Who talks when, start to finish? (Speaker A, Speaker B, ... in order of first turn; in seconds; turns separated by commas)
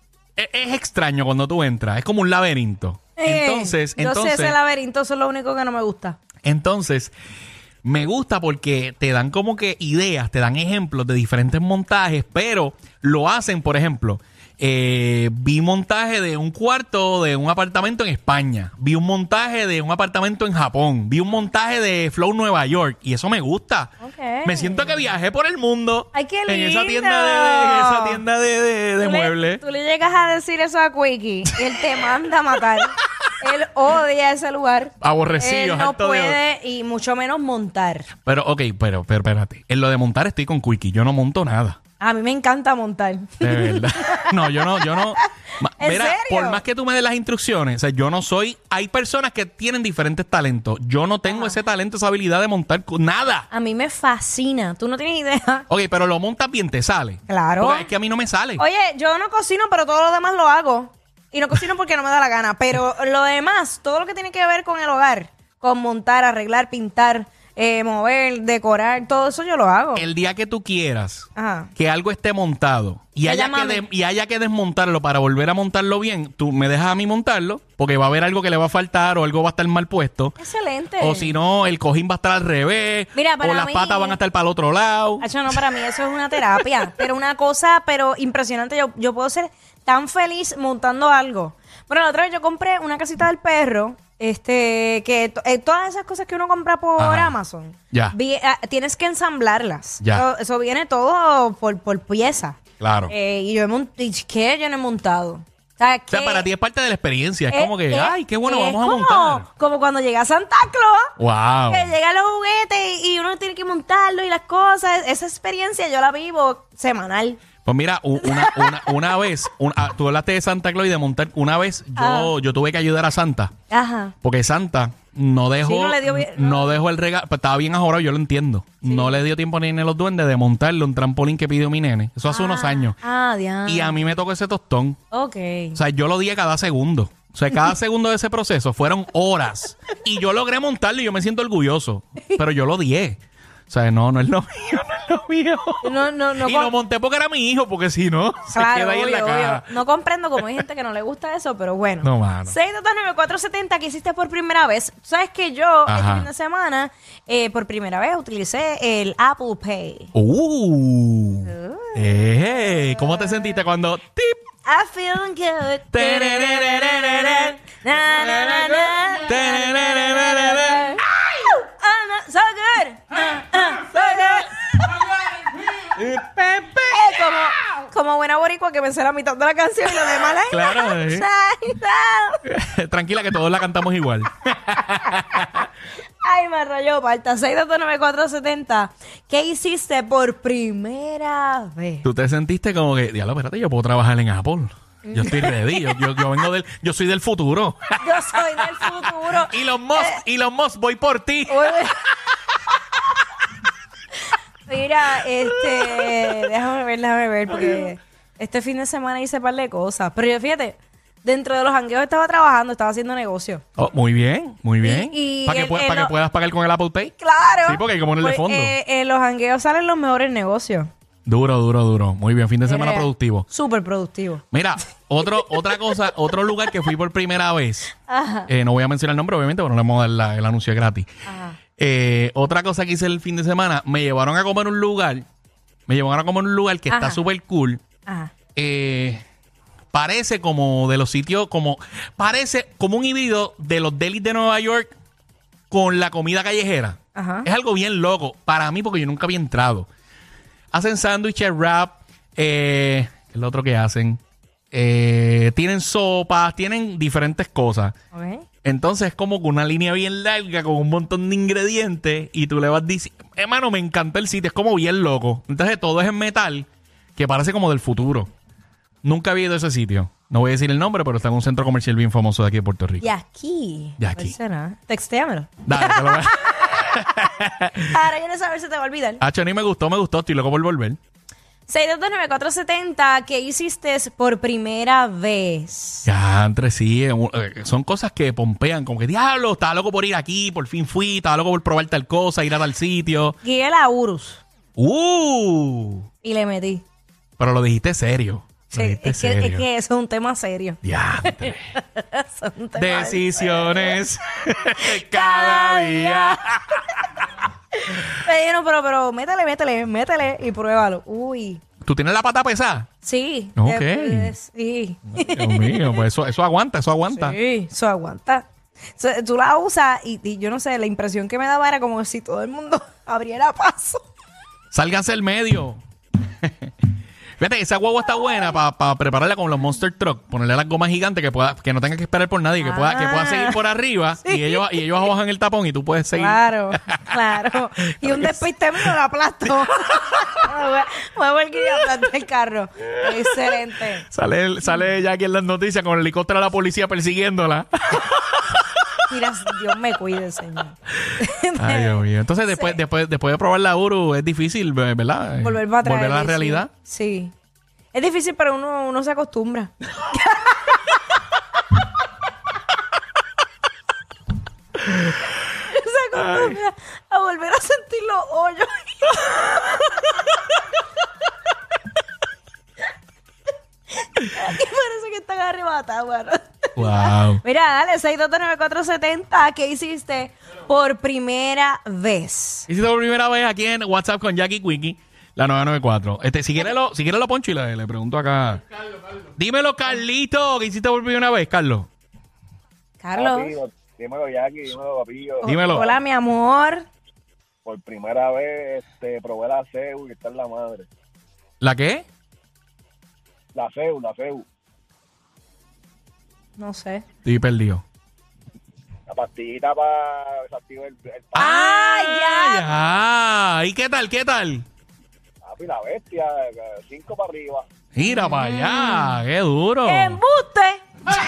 Speaker A: 0.4-4.5, Speaker B: 3.2-6.2, Speaker A: 6.5-7.1, Speaker A: 7.8-23.9, Speaker B: 24.0-25.0, Speaker A: 24.4-29.6, Speaker B: 26.1-28.2, Speaker B: 29.0-38.1, Speaker A: 35.0-36.4, Speaker A: 38.3-41.8, Speaker B: 42.0-45.2, Speaker A: 43.4-53.5, Speaker B: 45.8-46.6, Speaker B: 51.3-51.6, Speaker B: 53.5-55.7, Speaker A: 55.7-58.6, Speaker B: 57.3-57.9, Speaker B: 58.6-70.1, Speaker A: 70.0-80.4, Speaker B: 71.4-71.7, Speaker B: 73.2-73.8, Speaker B: 80.4-81.4, Speaker A: 81.0-85.7, Speaker B: 83.2-84.2, Speaker B: 85.2-106.5, Speaker A: 97.0-97.4, Speaker A: 102.8-103.1, Speaker A: 106.1-109.5, Speaker B: 107.5-111.1, Speaker A: 111.2-111.9, Speaker B: 111.7-117.4, Speaker A: 117.7-123.5, Speaker B: 118.2-119.0, Speaker B: 122.0-122.3, Speaker B: 123.7-124.1, Speaker A: 124.2-133.0, Speaker B: 125.6-126.8, Speaker B: 128.8-129.2, Speaker B: 132.3-134.0, Speaker A: 133.7-135.0, Speaker B: 135.1-135.8, Speaker A: 135.8-149.7, Speaker B: 145.8-146.7, Speaker B: 148.5-160.1, Speaker A: 152.0-152.6, Speaker A: 155.9-156.3, Speaker A: 160.1-164.4, Speaker B: 161.5-162.0, Speaker B: 163.0-163.5, Speaker B: 164.7-174.9, Speaker A: 165.9-167.6, Speaker A: 168.3-171.0, Speaker A: 174.0-174.3, Speaker A: 175.7-177.3, Speaker B: 176.9-182.4, Speaker A: 180.5-181.3, Speaker A: 182.4-185.7, Speaker B: 186.2-192.1, Speaker A: 192.0-201.8, Speaker B: 195.1-196.1, Speaker B: 198.0-200.2, Speaker B: 201.5-202.1, Speaker B: 204.7-213.6, Speaker A: 205.2-206.5, Speaker A: 207.5-207.8, Speaker A: 213.8-217.1, Speaker B: 214.8-216.1, Speaker B: 217.2-220.9, Speaker A: 217.7-218.8, Speaker A: 221.3-223.5, Speaker B: 222.7-224.4, Speaker A: 224.5-227.9, Speaker B: 225.2-226.0, Speaker B: 228.1-228.5, Speaker A: 228.5-231.1, Speaker B: 231.3-231.6, Speaker A: 231.8-235.3, Speaker A: 235.9-237.8, Speaker B: 236.9-237.2, Speaker B: 238.1-238.3, Speaker A: 238.6-239.2, Speaker A: 239.9-244.9, Speaker A: 245.7-249.9, Speaker B: 247.2-247.5, Speaker A: 250.7-254.2, Speaker A: 254.7-257.9, Speaker B: 258.1-258.5, Speaker A: 258.6-268.3, Speaker A: 269.0-273.1, Speaker B: 273.0-276.6, Speaker A: 274.0-274.4, Speaker A: 275.7-277.9, Speaker B: 277.8-279.2, Speaker A: 279.2-281.0, Speaker B: 281.7-286.1, Speaker A: 286.1-293.4, Speaker B: 293.4-294.4, Speaker A: 294.8-296.1, Speaker B: 296.2-296.8, Speaker A: 297.4-299.6, Speaker B: 298.7-304.0, Speaker A: 300.8-301.7, Speaker A: 302.8-307.3, Speaker B: 304.8-306.4, Speaker B: 307.8-311.6, Speaker A: 311.8-312.9, Speaker B: 313.0-316.0, Speaker A: 313.6-314.3, Speaker A: 315.1-317.4, Speaker B: 317.1-318.5, Speaker B: 319.0-324.0, Speaker A: 324.7-326.7, Speaker A: 327.4-338.9, Speaker B: 332.6-333.6, Speaker B: 334.2-335.1, Speaker B: 336.2-344.1, Speaker A: 339.5-340.3, Speaker A: 342.9-343.6, Speaker A: 344.1-348.7, Speaker B: 349.1-352.8, Speaker A: 351.6-356.7, Speaker B: 355.4-357.3, Speaker B: 357.9-360.8, Speaker B: 365.5-370.4, Speaker B: 374.0-382.7, Speaker A: 376.8-377.4, Speaker A: 382.7-388.6, Speaker A: 389.4-391.9, Speaker B: 393.0-393.5, Speaker C: 393.1-395.9, Speaker B: 395.4-396.9, Speaker A: 395.4-395.9, Speaker C: 397.6-400.9, Speaker A: 401.6-402.1, Speaker C: 403.6-404.4, Speaker B: 406.6-407.0, Speaker A: 407.2-407.8, Speaker C: 409.1-411.5, Speaker A: 411.4-414.6, Speaker B: 411.4-412.8, Speaker C: 415.4-417.7, Speaker A: 417.9-420.2, Speaker B: 418.1-419.2, Speaker B: 419.9-420.8